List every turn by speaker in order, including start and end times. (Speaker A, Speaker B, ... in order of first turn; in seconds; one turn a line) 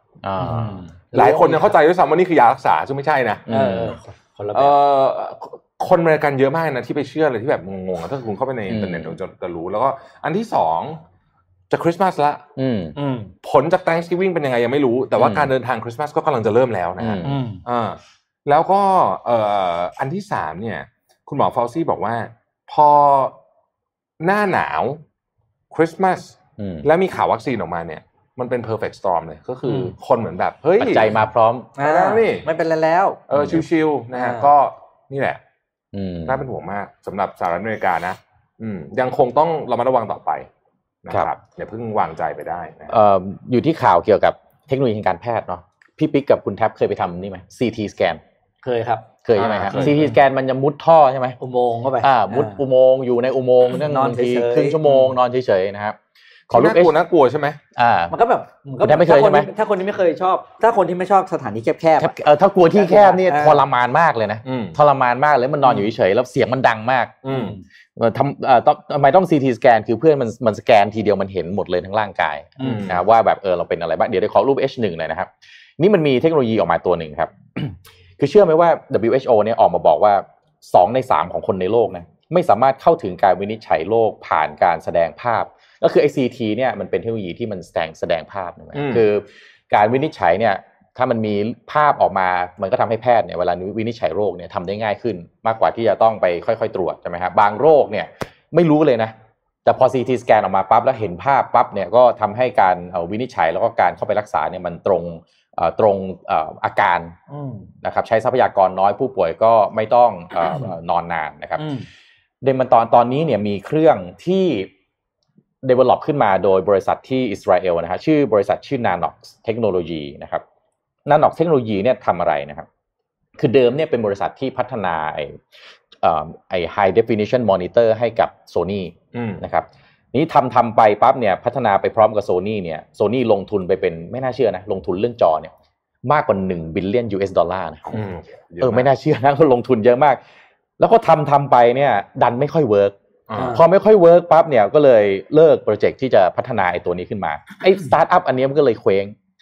Speaker A: 0.2-0.8
Speaker B: 0.4-1.8
Speaker C: 1.1-3.5
Speaker A: 3.5-4.0
Speaker B: 3.5-4.8
Speaker C: 4.5-11.0
Speaker A: 8.7-9.2
Speaker C: 11.7-12.4
Speaker A: 12.6-12.9
Speaker B: 12.9-13.3
Speaker C: 13.4-23.4
Speaker A: 15.2-15.5
Speaker A: 17.0-17.4
Speaker B: 17.2-17.6
Speaker C: 24.2-25.0
Speaker C: 25.7-31.2
Speaker A: 26.6-26.9
Speaker B: 29.6-29.9
Speaker A: 30.8-31.7
Speaker B: 31.8-33.2
Speaker C: 31.8-32.5
Speaker C: 33.3-35.4
Speaker A: 33.3-33.6
Speaker B: 34.1-34.5
Speaker A: 35.9-36.4
Speaker C: 36.2-40.5
Speaker C: 41.0-43.0
Speaker A: 42.9-48.2
Speaker B: 48.6-49.1
Speaker A: 49.2-51.4
Speaker C: 49.4-50.0
Speaker B: 49.7-50.1
Speaker B: 51.4-52.6
Speaker A: 52.0-56.0
Speaker B: 53.8-55.1
Speaker A: 56.5-56.9
Speaker C: 56.5-57.6
Speaker A: 57.7-58.1
Speaker B: 58.1-62.1
Speaker A: 58.8-59.5
Speaker A: 62.0-67.2
Speaker B: 62.7-63.6
Speaker C: 64.4-64.8
Speaker C: 67.2-67.5
Speaker B: 67.3-67.6
Speaker A: 68.0-99.1
Speaker B: 72.6-72.9
Speaker C: 72.6-73.0
Speaker C: 88.7-89.0
Speaker A: 99.6-107.1
Speaker B: 107.3-107.7
Speaker A: 107.8-111.6
Speaker B: 111.6-111.9
Speaker A: 112.4-114.7
Speaker A: 115.6-120.4
Speaker A: 121.1-122.7
Speaker A: 123.4-125.4
Speaker A: 126.0-135.5
Speaker C: 129.1-129.4
Speaker A: 136.0-138.0
Speaker C: 137.9-138.9
Speaker A: 138.6-140.2
Speaker A: 140.8-142.9
Speaker C: 143.3-143.6
Speaker B: 143.4-143.6
Speaker A: 143.5-149.1